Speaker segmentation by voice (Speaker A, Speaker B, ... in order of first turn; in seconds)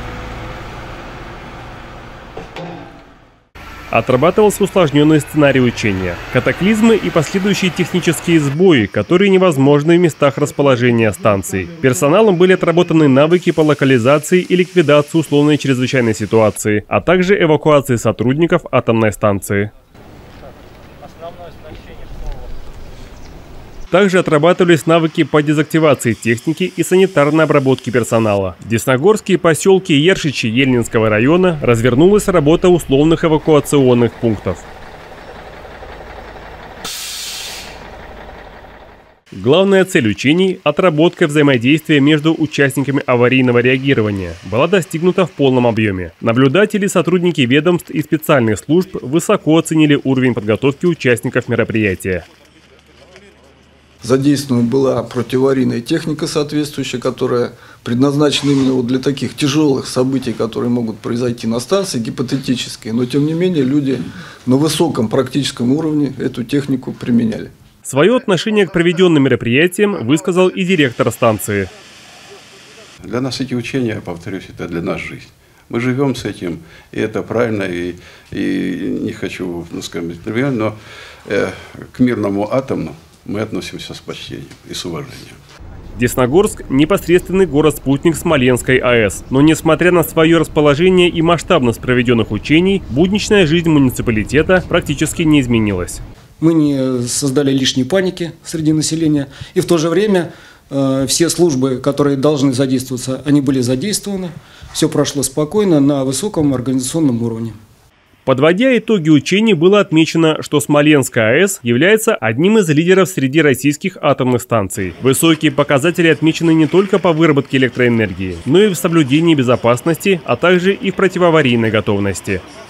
Speaker A: 3.9-19.7, 23.9-34.6, 39.3-52.3, 67.8-71.7, 86.0-96.0, 108.3-122.4
Speaker B: 54.0-67.5
Speaker C: 73.0-80.8, 81.3-85.4
Speaker D: 96.4-107.6